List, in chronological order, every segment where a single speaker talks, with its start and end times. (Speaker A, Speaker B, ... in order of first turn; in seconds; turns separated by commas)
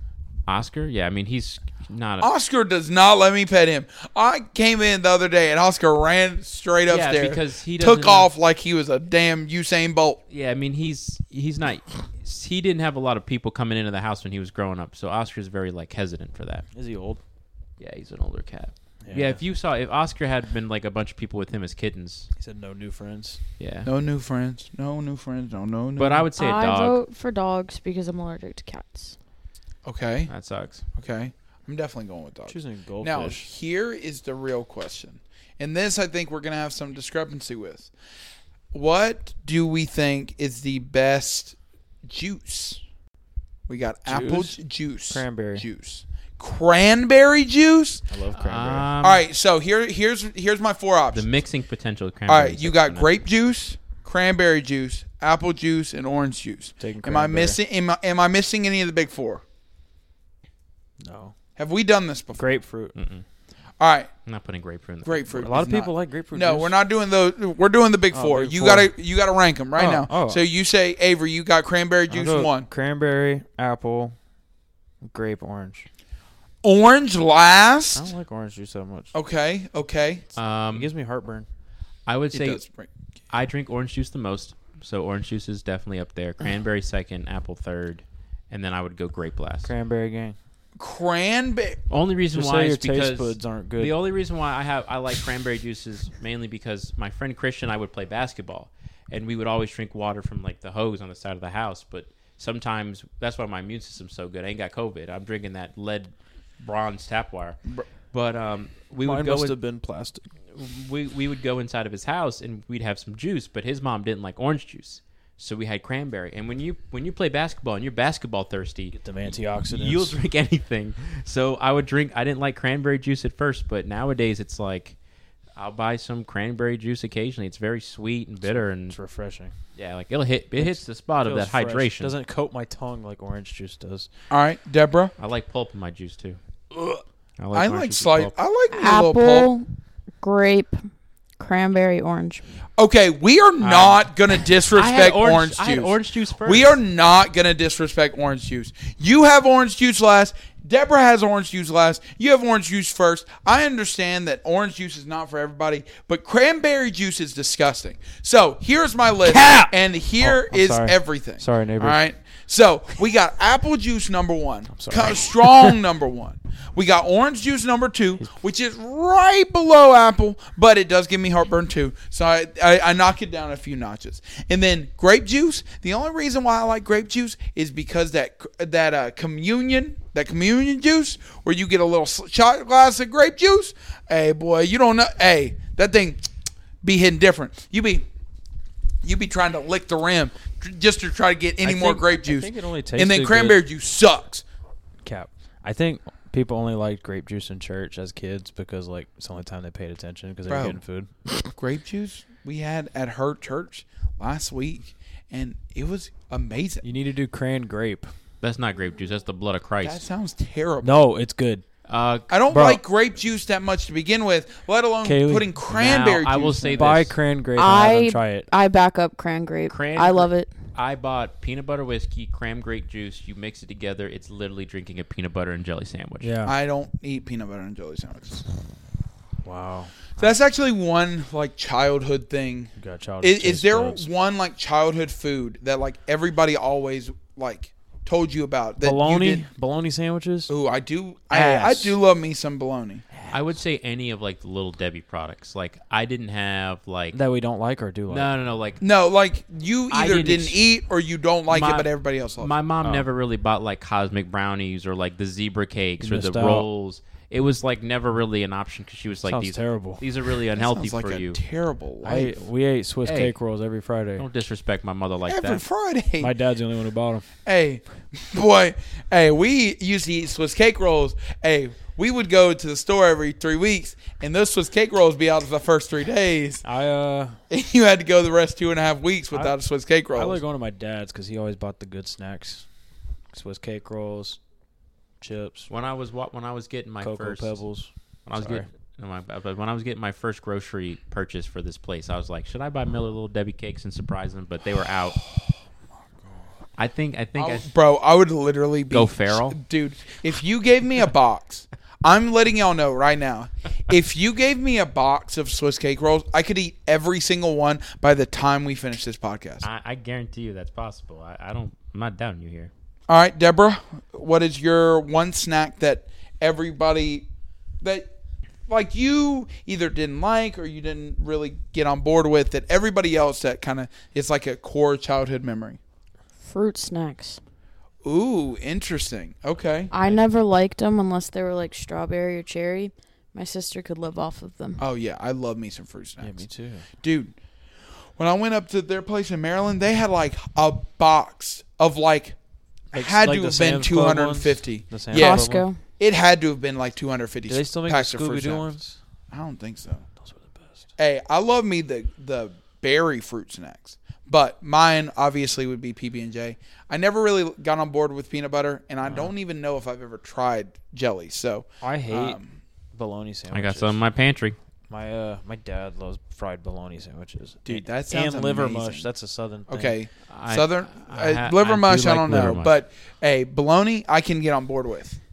Speaker A: 0.5-2.3, Speaker B: 2.2-10.2, Speaker A: 6.9-8.3, Speaker A: 10.3-16.7, Speaker C: 16.7-17.2, Speaker A: 17.8-22.3, Speaker C: 19.0-19.4, Speaker C: 22.4-23.4, Speaker A: 23.6-23.9, Speaker B: 23.9-26.3, Speaker A: 26.0-27.0, Speaker D: 26.4-29.1, Speaker B: 29.8-30.3, Speaker A: 30.3-30.9, Speaker B: 30.9-37.9, Speaker C: 32.5-33.5, Speaker B: 38.7-42.8, Speaker B: 43.7-48.0, Speaker C: 44.1-44.6, Speaker C: 45.1-45.7, Speaker C: 48.1-48.9, Speaker A: 48.3-49.2, Speaker B: 49.0-51.3, Speaker A: 51.1-53.1, Speaker B: 52.3-59.4, Speaker C: 56.8-57.6, Speaker C: 61.0-61.3, Speaker B: 61.6-62.4, Speaker C: 62.4-62.9, Speaker A: 63.0-63.2, Speaker B: 63.8-64.1, Speaker A: 64.3-65.5, Speaker B: 65.0-72.7, Speaker C: 65.3-66.7, Speaker C: 68.1-68.9, Speaker C: 69.8-70.4, Speaker C: 72.1-74.2, Speaker C: 75.0-75.9, Speaker B: 76.6-78.1, Speaker C: 77.9-79.1, Speaker B: 79.1-80.2, Speaker A: 80.3-80.9, Speaker C: 80.7-81.5, Speaker A: 82.1-82.6, Speaker B: 82.3-82.9, Speaker A: 83.3-89.7, Speaker C: 89.6-90.4, Speaker B: 90.8-91.8, Speaker A: 91.9-107.6, Speaker C: 92.3-93.9, Speaker A: 108.1-109.6, Speaker C: 109.0-110.2, Speaker A: 110.5-119.0, Speaker C: 118.9-120.2, Speaker A: 119.7-125.0, Speaker A: 125.6-129.0, Speaker C: 128.5-129.5, Speaker A: 129.8-132.1, Speaker C: 130.6-134.1, Speaker B: 134.3-135.1, Speaker A: 135.2-136.4, Speaker A: 137.4-138.3, Speaker B: 137.5-139.5, Speaker D: 138.7-139.7, Speaker D: 140.2-140.8, Speaker D: 141.4-142.4, Speaker B: 142.8-186.2, Speaker A: 143.6-144.0, Speaker A: 144.7-146.8, Speaker C: 159.3-162.0, Speaker C: 164.7-165.8, Speaker B: 186.8-188.1, Speaker B: 189.0-194.4, Speaker C: 191.6-193.6, Speaker C: 195.1-201.1, Speaker B: 200.5-200.8, Speaker B: 201.5-206.8, Speaker C: 206.8-208.1, Speaker A: 208.4-210.0, Speaker B: 209.8-211.0, Speaker C: 210.8-211.6, Speaker A: 211.9-212.3, Speaker B: 212.3-216.9, Speaker C: 212.5-212.8, Speaker C: 215.0-215.6, Speaker A: 215.7-217.2, Speaker C: 216.7-218.5, Speaker D: 217.6-220.5, Speaker A: 219.7-226.3, Speaker C: 226.2-226.6, Speaker B: 226.4-228.4, Speaker C: 229.4-229.9, Speaker B: 230.2-232.7, Speaker C: 232.8-234.1, Speaker B: 233.2-239.5, Speaker C: 238.8-240.5, Speaker B: 240.5-243.0, Speaker C: 241.3-241.9, Speaker A: 243.3-247.2, Speaker C: 247.1-248.3, Speaker A: 248.1-248.8, Speaker B: 248.8-252.5, Speaker A: 249.9-250.6, Speaker A: 251.5-261.4, Speaker C: 252.8-253.1, Speaker C: 256.0-256.7, Speaker C: 259.3-260.0, Speaker B: 260.6-262.3, Speaker C: 262.0-264.2, Speaker A: 263.1-263.3, Speaker A: 264.2-265.6, Speaker B: 265.3-266.3, Speaker C: 266.2-267.2, Speaker B: 267.5-276.6, Speaker C: 276.6-277.4, Speaker B: 277.5-280.4, Speaker C: 280.1-282.7, Speaker C: 283.3-284.4, Speaker C: 285.2-285.7, Speaker A: 285.7-287.6, Speaker C: 287.0-288.7, Speaker A: 288.3-295.2, Speaker A: 296.8-297.7, Speaker B: 297.4-309.7, Speaker A: 298.9-299.6, Speaker A: 309.6-312.7, Speaker B: 313.1-317.3, Speaker B: 317.8-318.1, Speaker B: 318.7-325.8, Speaker D: 326.4-327.4, Speaker B: 328.0-329.9, Speaker D: 329.9-334.8, Speaker B: 334.8-336.4, Speaker C: 336.2-336.9, Speaker B: 337.0-337.3, Speaker B: 338.2-342.4, Speaker C: 342.9-345.7, Speaker B: 342.9-348.7, Speaker D: 345.1-345.8, Speaker C: 347.5-349.0, Speaker B: 349.3-350.1, Speaker C: 350.2-350.8, Speaker B: 351.0-362.6, Speaker C: 359.1-359.3, Speaker C: 361.8-362.4, Speaker C: 362.9-364.0, Speaker A: 363.5-364.6, Speaker C: 364.9-369.9, Speaker B: 367.6-369.1, Speaker B: 369.7-375.2, Speaker A: 370.3-372.7